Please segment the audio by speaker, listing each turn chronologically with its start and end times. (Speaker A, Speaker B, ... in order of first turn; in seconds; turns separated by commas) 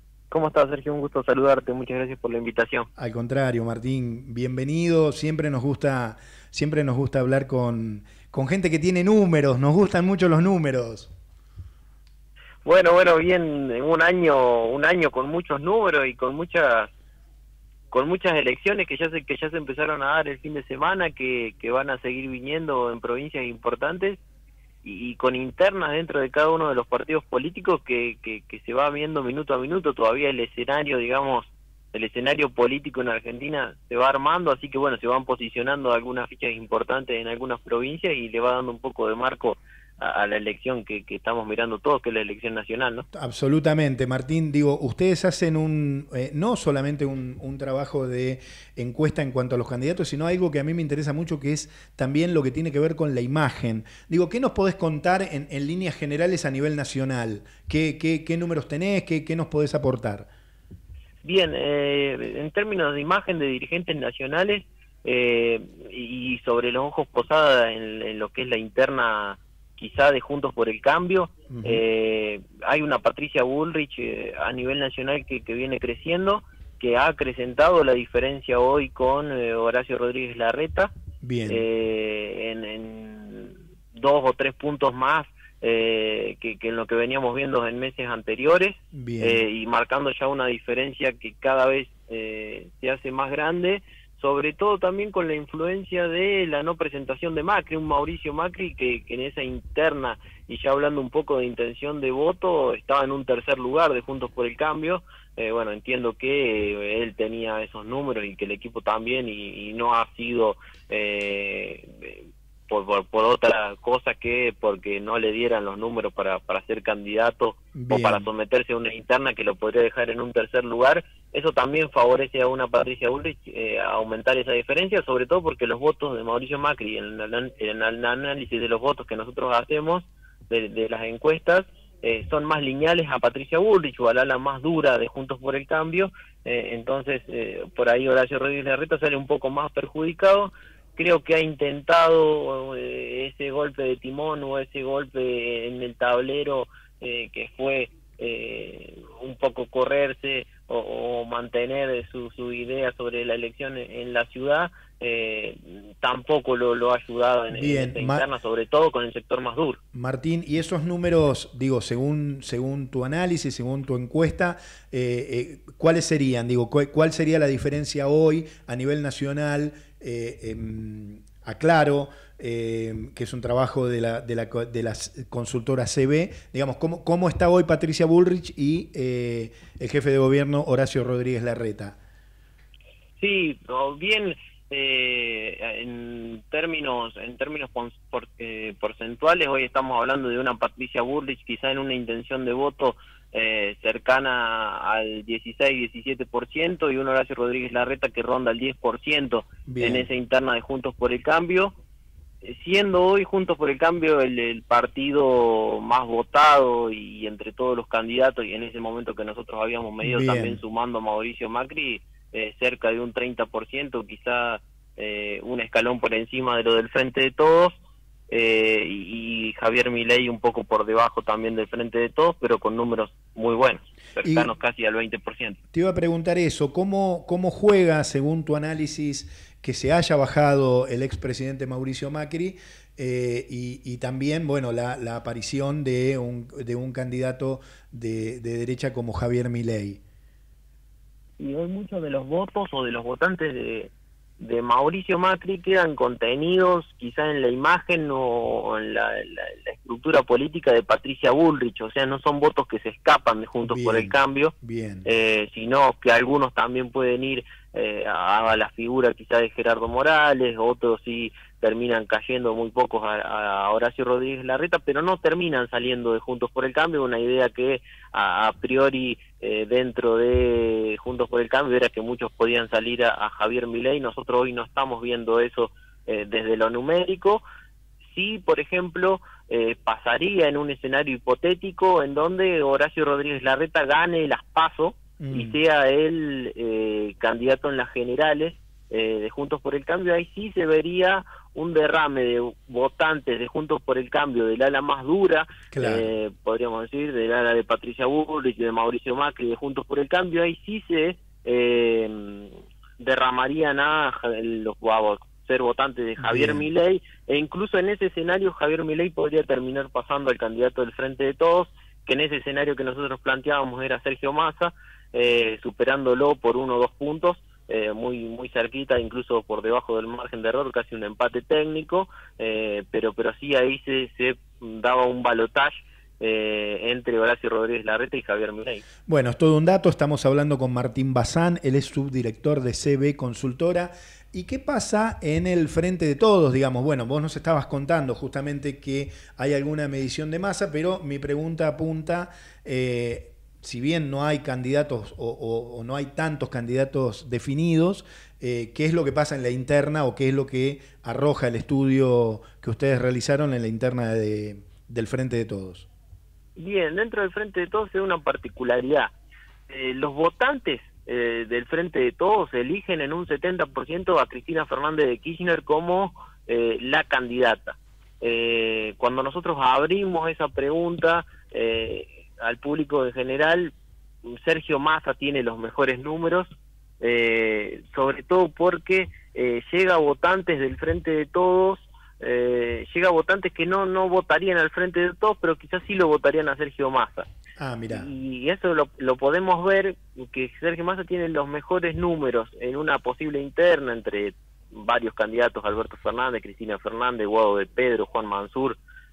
Speaker A: 0.3-2.9, Speaker B: 3.0-11.1, Speaker A: 12.6-16.9, Speaker A: 17.9-24.2, Speaker A: 24.8-43.0, Speaker B: 43.1-60.3, Speaker A: 61.2-80.9, Speaker B: 71.5-71.8, Speaker B: 81.2-81.6, Speaker A: 81.5-159.8, Speaker B: 88.9-89.4, Speaker B: 117.7-118.3, Speaker B: 157.5-158.2, Speaker B: 159.9-182.0, Speaker A: 183.2-201.7, Speaker B: 199.7-200.1, Speaker A: 202.4-217.8, Speaker B: 210.0-210.6, Speaker A: 218.3-225.6, Speaker B: 224.2-224.5, Speaker B: 225.7-240.0, Speaker A: 241.4-254.5, Speaker B: 253.6-255.1, Speaker A: 255.0-277.4, Speaker A: 278.0-328.8, Speaker B: 285.2-285.6, Speaker B: 295.7-296.1, Speaker B: 306.2-306.6, Speaker B: 329.1-355.9, Speaker A: 356.6-359.1, Speaker A: 359.7-373.7, Speaker A: 374.2-387.3, Speaker B: 387.6-388.1, Speaker A: 387.9-398.8